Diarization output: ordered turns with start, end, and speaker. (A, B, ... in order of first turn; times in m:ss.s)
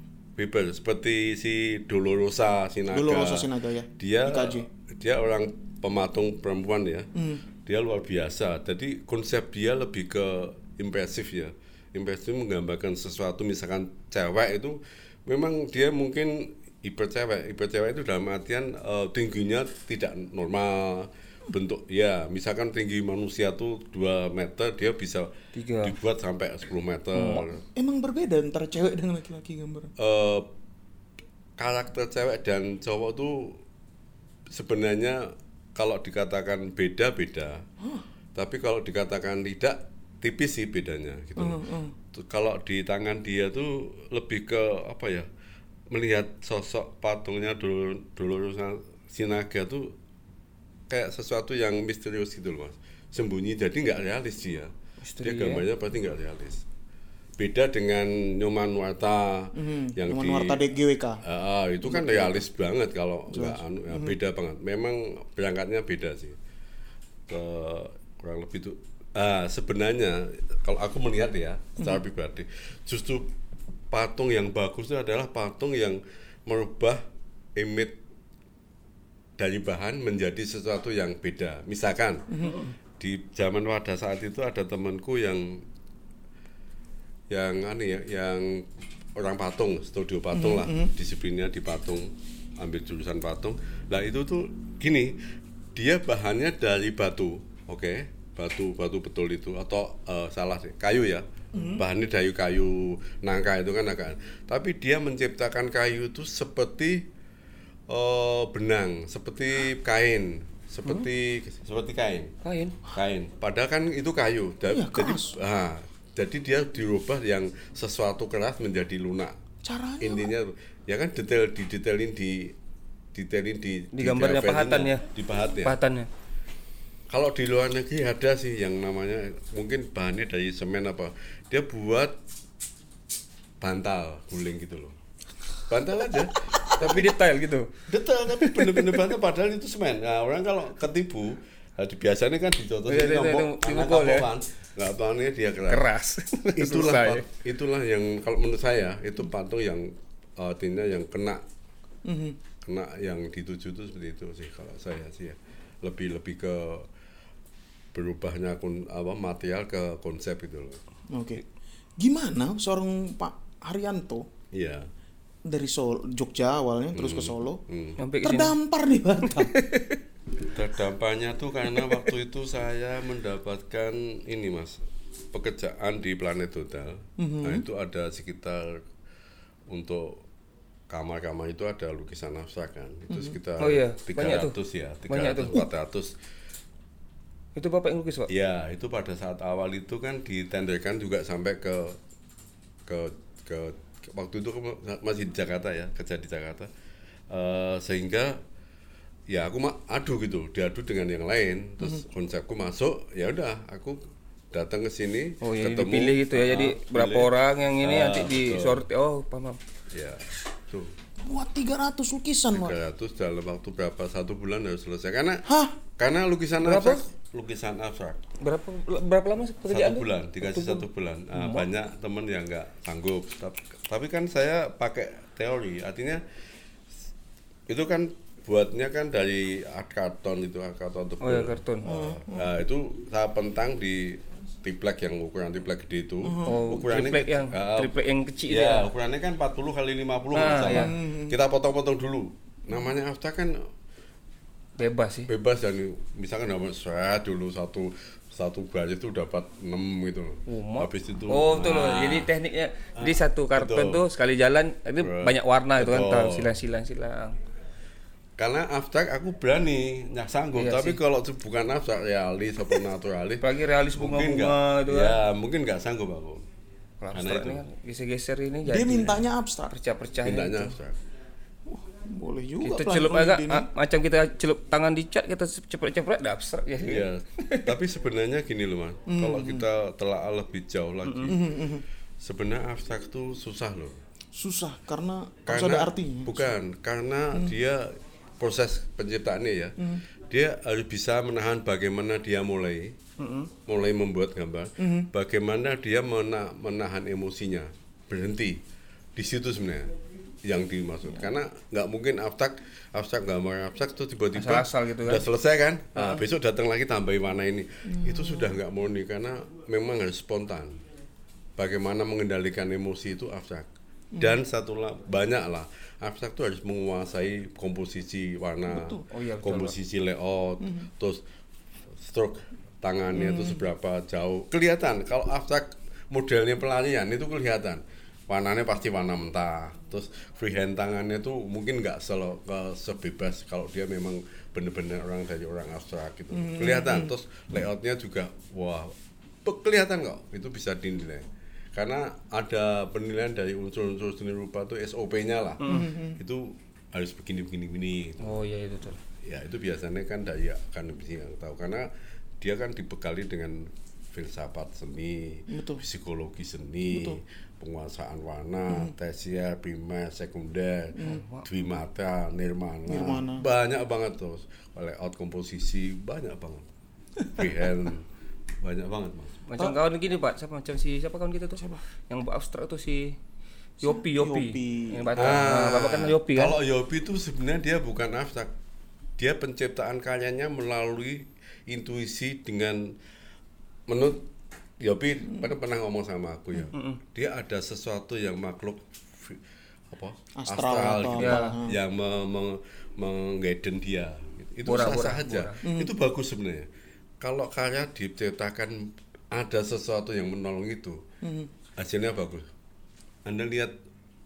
0:00.4-0:07.1 A
0:02.9-0:04.6 B
0:07.2-0:07.4 B
0:07.6-0:27.6 A
0:25.6-0:26.0 C
0:27.2-0:27.4 C
0:27.8-0:29.9 B
0:30.0-0:30.5 A
0:31.6-0:33.6 A
0:34.5-0:37.6 A
0:38.4-0:45.3 A
0:41.4-0:41.9 B
0:45.9-0:50.0 A
0:50.9-0:56.6 A
0:55.0-0:55.6 C
0:57.4-1:00.6 A
0:59.6-1:01.2 B
1:01.2-1:06.4 A
1:01.9-1:02.4 B
1:03.3-1:04.2 B
1:07.3-1:13.3 A
1:13.9-1:17.0 A
1:17.6-1:18.0 A
1:19.4-1:22.3 A
1:22.3-1:22.6 B
1:23.0-1:25.6 A
1:27.3-1:35.2 A
1:30.3-1:30.9 B
1:35.8-1:47.1 A
1:41.5-1:41.8 B
1:47.9-1:52.4 A
1:52.4-1:52.8 C
1:52.9-1:59.4 A
1:54.7-1:55.3 B
1:59.6-2:00.3 B
2:00.0-2:02.6 A
2:03.1-2:05.8 A
2:03.9-2:05.1 C
2:05.6-2:06.1 C
2:07.1-2:12.2 A
2:13.6-2:15.0 A
2:15.6-2:17.2 A
2:16.8-2:17.7 C
2:17.9-2:25.9 A
2:18.4-2:19.0 C
2:22.9-2:24.3 C
2:25.7-2:27.2 C
2:26.5-2:31.4 A
2:32.0-2:32.4 B
2:32.6-2:36.9 A
2:37.9-2:40.8 A
2:41.1-2:41.4 B
2:42.0-2:44.2 B
2:44.5-2:44.9 A
2:45.5-2:47.6 B
2:46.9-2:48.0 A
2:48.0-2:48.6 C
2:48.2-2:49.6 B
2:49.4-2:50.0 C
2:50.4-2:54.8 A
2:55.3-2:58.8 A
2:57.2-2:57.6 B
2:59.7-3:00.2 A
3:00.9-3:06.1 A
3:03.6-3:04.6 C
3:05.1-3:05.6 C
3:07.6-3:08.3 C
3:08.3-3:12.0 A
3:12.9-3:16.7 A
3:17.3-3:18.4 A
3:19.3-3:28.8 A
3:25.4-3:29.6 C
3:29.9-3:31.0 A
3:31.2-3:32.8 B
3:32.5-3:35.4 A
3:35.5-3:35.8 B
3:36.0-3:38.2 A
3:36.6-3:37.0 C
3:38.4-3:41.7 C
3:39.7-3:46.2 A
3:47.7-3:57.9 A
3:51.2-3:51.9 C
3:51.8-3:52.5 B
3:56.2-3:56.6 B
3:56.5-3:58.9 C
3:58.5-4:03.6 A
4:00.3-4:00.9 C
4:00.7-4:01.4 B
4:04.8-4:05.3 C
4:05.3-4:12.3 A
4:10.5-4:17.4 C
4:13.0-4:14.0 A
4:15.0-4:16.6 A
4:18.4-4:26.5 A
4:20.6-4:21.0 C
4:23.4-4:25.2 C
4:27.0-4:30.7 C
4:27.1-4:27.6 A
4:28.7-4:29.8 B
4:30.2-4:31.0 A
4:31.7-4:33.7 B
4:32.6-4:37.7 C
4:36.9-4:41.7 A
4:39.1-4:39.6 B
4:41.1-4:41.3 C
4:41.3-4:41.8 B
4:42.2-4:44.0 A
4:44.4-4:46.5 B
4:45.5-4:53.0 A
4:53.2-4:53.5 C
4:53.7-4:58.6 A
4:54.8-4:55.1 B
4:59.2-4:59.9 A
5:00.4-5:10.8 A
5:04.3-5:05.2 C
5:07.9-5:08.5 B
5:11.6-5:21.2 A
5:18.7-5:19.0 B
5:19.1-5:19.7 C
5:22.0-5:48.4 A
5:23.1-5:23.6 B
5:36.3-5:37.1 B
5:45.6-5:46.2 B
5:48.2-5:49.0 C
5:49.2-5:51.9 A
5:52.4-6:06.7 A
5:55.5-5:55.8 B
5:56.9-5:57.2 B
6:01.0-6:01.4 C
6:02.9-6:03.4 B
6:07.3-6:08.1 A
6:08.6-6:09.4 A
6:09.5-6:13.2 C
6:13.8-6:16.6 C
6:13.8-6:15.4 B
6:15.2-6:18.5 A
6:19.2-6:23.0 A
6:23.9-6:24.3 A
6:24.8-6:36.7 A
6:26.7-6:27.0 C
6:30.4-6:31.8 B
6:31.2-6:31.5 C
6:34.7-6:35.6 C
6:35.6-6:35.9 B
6:37.2-6:41.0 A
6:41.2-6:41.5 B
6:41.8-6:42.5 A
6:43.3-6:43.7 A